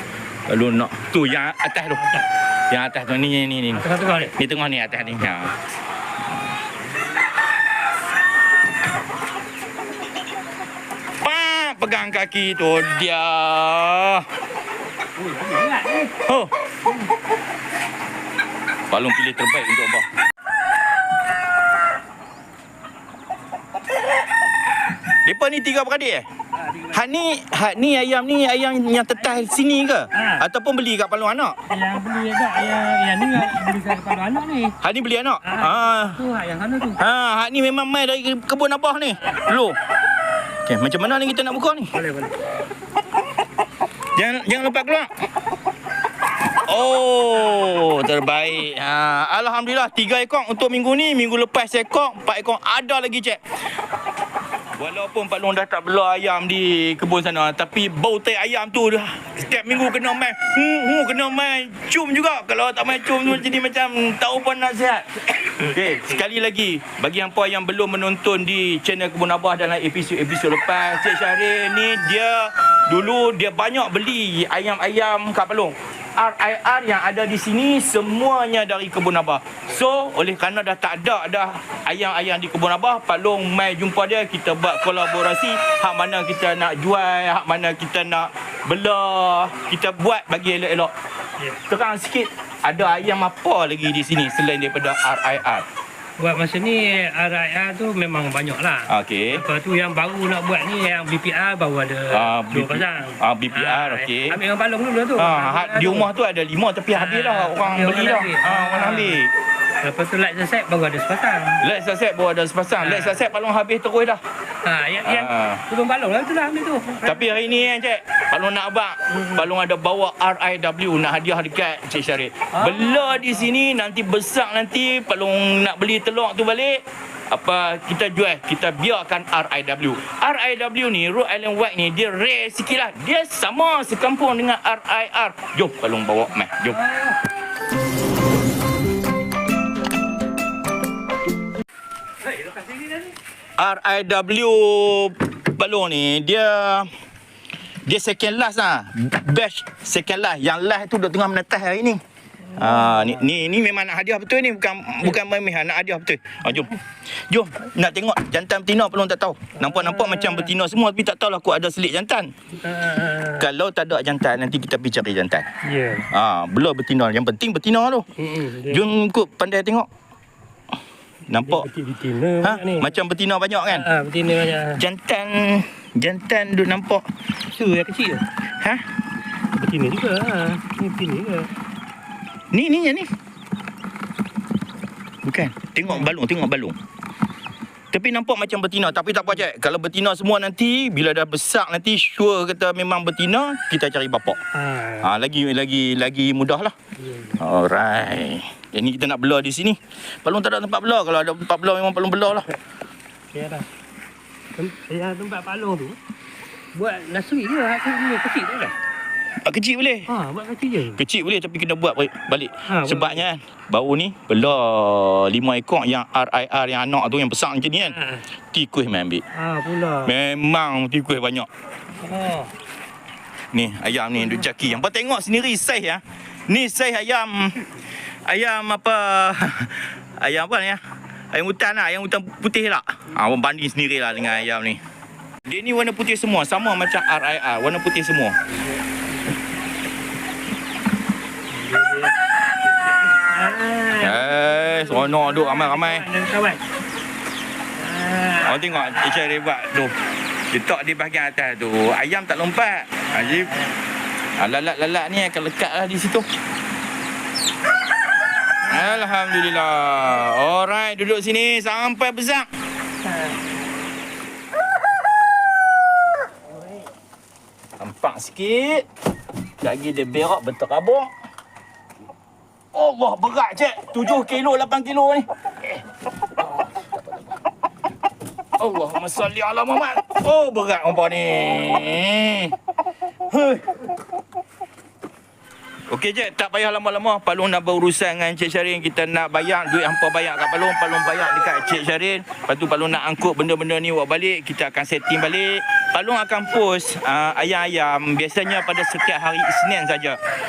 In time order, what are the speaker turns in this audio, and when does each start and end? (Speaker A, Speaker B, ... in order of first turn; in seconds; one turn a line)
Speaker A: 0.5-5.5
Speaker B: 2.0-2.3
Speaker B: 3.7-4.4
Speaker A: 11.2-14.3
Speaker B: 15.2-16.1
Speaker A: 16.1-16.5
Speaker A: 18.9-20.1
Speaker A: 25.2-26.2
Speaker B: 26.6-26.9
Speaker A: 26.8-31.6
Speaker B: 30.1-30.4
Speaker B: 31.7-34.8
Speaker A: 34.8-36.2
Speaker B: 35.4-37.0
Speaker A: 37.0-39.8
Speaker A: 40.6-41.9
Speaker B: 41.9-42.4
Speaker A: 44.1-45.1
Speaker A: 46.7-53.4
Speaker A: 54.7-90.9
Speaker A: 91.6-95.7
Speaker B: 96.2-106.1
Speaker A: 98.9-99.4
Speaker A: 102.1-104.4
Speaker A: 105.2-109.3
Speaker B: 106.9-109.2
Speaker B: 109.8-111.6
Speaker A: 111.6-114.2
Speaker B: 112.8-113.2
Speaker B: 114.6-117.5
Speaker A: 115.0-115.7
Speaker A: 117.0-136.8
Speaker B: 119.1-119.4
Speaker B: 122.5-123.4
Speaker B: 136.8-137.2
Speaker B: 142.2-143.1
Speaker A: 143.6-146.9
Speaker A: 147.8-152.0
Speaker B: 152.5-153.2
Speaker A: 152.5-162.3
Speaker B: 159.6-160.5
Speaker B: 162.6-163.5
Speaker A: 163.2-165.5
Speaker B: 165.6-166.1
Speaker A: 166.0-169.9
Speaker B: 168.2-168.8
Speaker A: 171.3-171.7
Speaker B: 171.3-172.9
Speaker A: 172.4-173.9
Speaker B: 173.7-174.8
Speaker A: 174.6-177.0
Speaker B: 177.5-178.3
Speaker B: 179.5-181.5
Speaker A: 182.5-183.1
Speaker A: 185.2-186.8
Speaker A: 187.9-194.4
Speaker B: 194.5-195.1
Speaker A: 195.0-196.7
Speaker B: 197.0-197.4
Speaker A: 197.3-202.5
Speaker B: 203.3-203.7
Speaker B: 204.5-206.0
Speaker B: 206.7-208.8
Speaker A: 209.4-210.1
Speaker B: 210.1-211.0
Speaker A: 210.9-218.0
Speaker B: 212.7-213.2
Speaker B: 217.8-218.3
Speaker A: 218.5-219.2
Speaker B: 219.3-220.1
Speaker A: 220.0-221.5
Speaker B: 222.0-222.5
Speaker A: 223.5-230.8
Speaker A: 231.3-234.8
Speaker A: 235.4-238.3
Speaker B: 241.5-242.1
Speaker B: 242.7-246.7
Speaker A: 243.9-246.1
Speaker B: 247.7-248.9
Speaker A: 248.4-249.9
Speaker A: 250.5-253.6
Speaker B: 253.1-253.7
Speaker A: 254.4-256.3
Speaker A: 258.6-262.5
Speaker B: 263.0-263.4
Speaker A: 267.8-268.9
Speaker A: 269.6-271.1
Speaker A: 272.7-275.8
Speaker A: 276.4-277.3
Speaker A: 278.6-282.6
Speaker A: 283.3-283.8
Speaker A: 285.9-300.2